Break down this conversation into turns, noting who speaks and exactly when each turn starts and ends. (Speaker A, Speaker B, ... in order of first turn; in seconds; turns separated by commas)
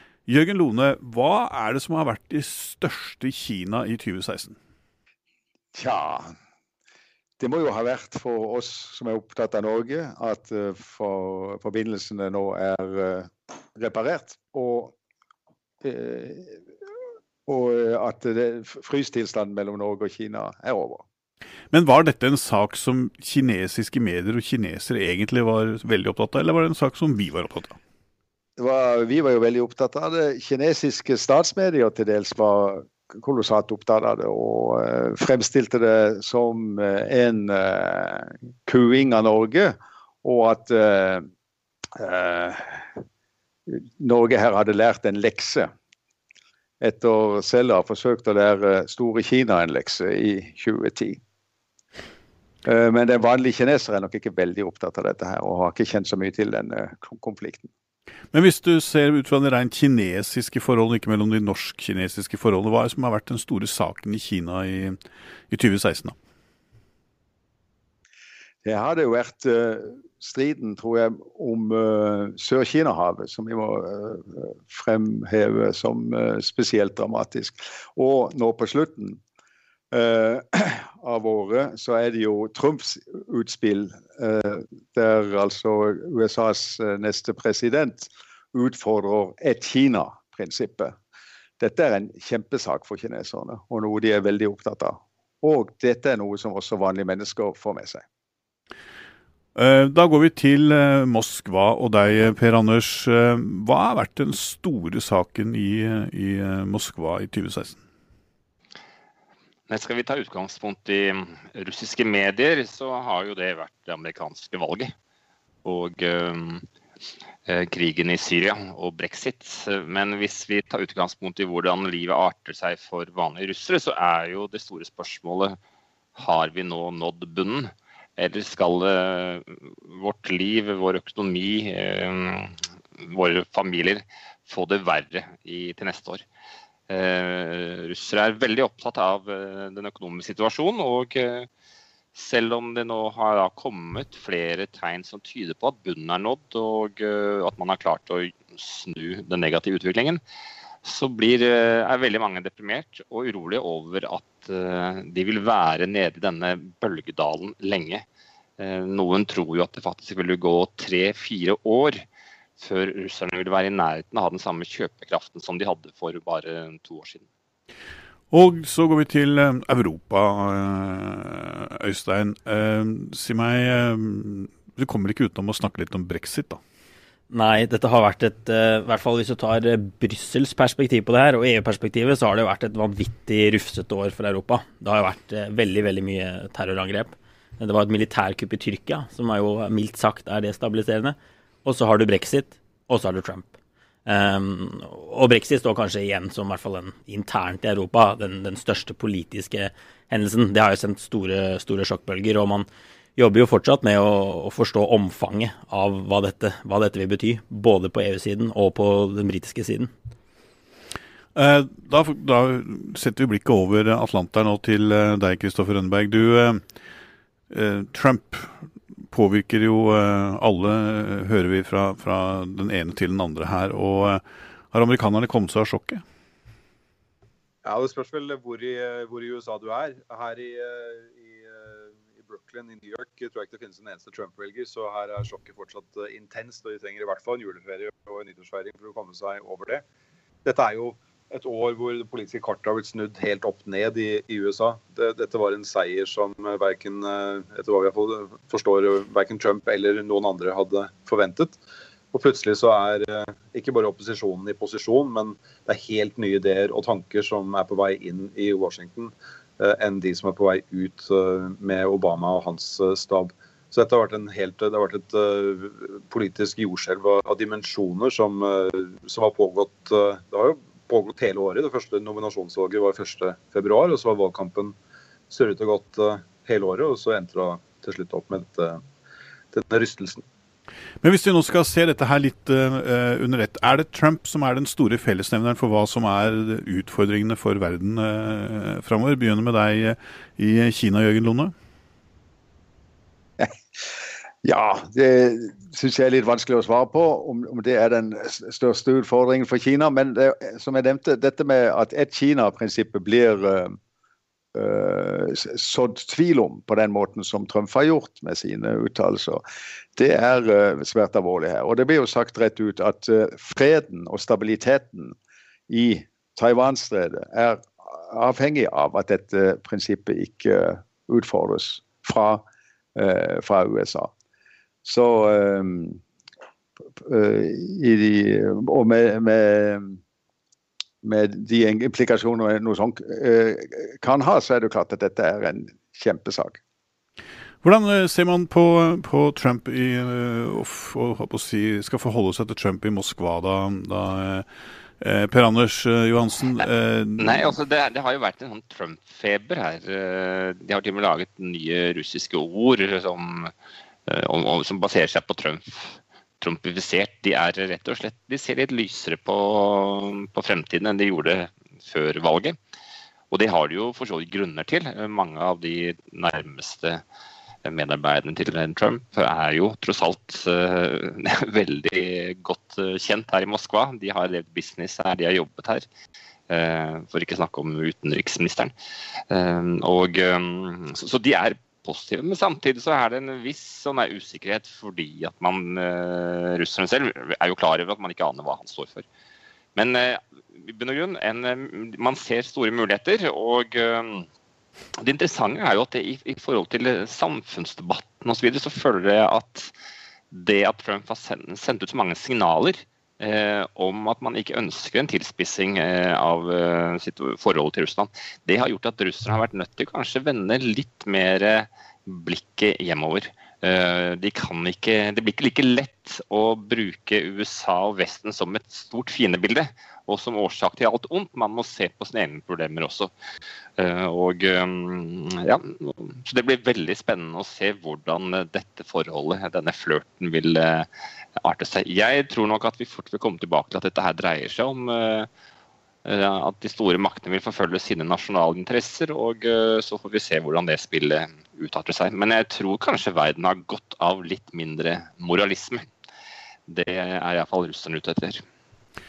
Speaker A: 0.2-4.6, Speaker B: 5.7-6.3, Speaker B: 7.4-14.9, Speaker B: 15.8-16.6, Speaker B: 17.4-21.0, Speaker A: 21.7-27.8, Speaker B: 28.6-41.3, Speaker B: 41.9-42.9, Speaker B: 43.7-45.7, Speaker B: 46.8-51.2, Speaker B: 52.6-57.7, Speaker A: 58.3-65.0, Speaker A: 65.5-66.2, Speaker B: 68.6-79.2, Speaker B: 79.9-91.0, Speaker B: 91.6-98.0, Speaker A: 99.5-107.8, Speaker C: 109.7-114.9, Speaker C: 115.6-116.7, Speaker C: 117.5-125.6, Speaker C: 126.2-136.2, Speaker C: 136.9-141.5, Speaker C: 142.1-150.2, Speaker C: 150.8-158.0, Speaker C: 158.6-162.0, Speaker C: 162.6-167.2, Speaker A: 168.3-176.6, Speaker D: 177.3-193.5, Speaker D: 194.1-202.7, Speaker D: 203.2-209.9, Speaker A: 211.3-216.6, Speaker A: 217.5-218.5, Speaker A: 219.1-226.0, Speaker E: 227.6-239.8, Speaker E: 240.4-251.6, Speaker E: 252.1-274.8, Speaker E: 275.3-278.8, Speaker E: 279.5-280.2, Speaker A: 281.0-291.5, Speaker B: 294.4-303.8, Speaker B: 304.5-309.4, Speaker B: 309.9-315.1, Speaker B: 315.7-324.1, Speaker B: 324.8-326.0, Speaker B: 327.0-330.0, Speaker B: 331.0-336.6, Speaker A: 337.6-344.5, Speaker A: 345.0-347.5, Speaker C: 347.2-353.5, Speaker C: 354.1-362.6, Speaker C: 363.3-367.0, Speaker C: 367.6-375.9, Speaker C: 376.5-378.7, Speaker C: 379.3-389.1, Speaker C: 389.8-394.3, Speaker C: 395.0-399.7, Speaker C: 400.3-423.1, Speaker C: 423.8-435.3, Speaker C: 436.0-445.9, Speaker C: 446.7-448.4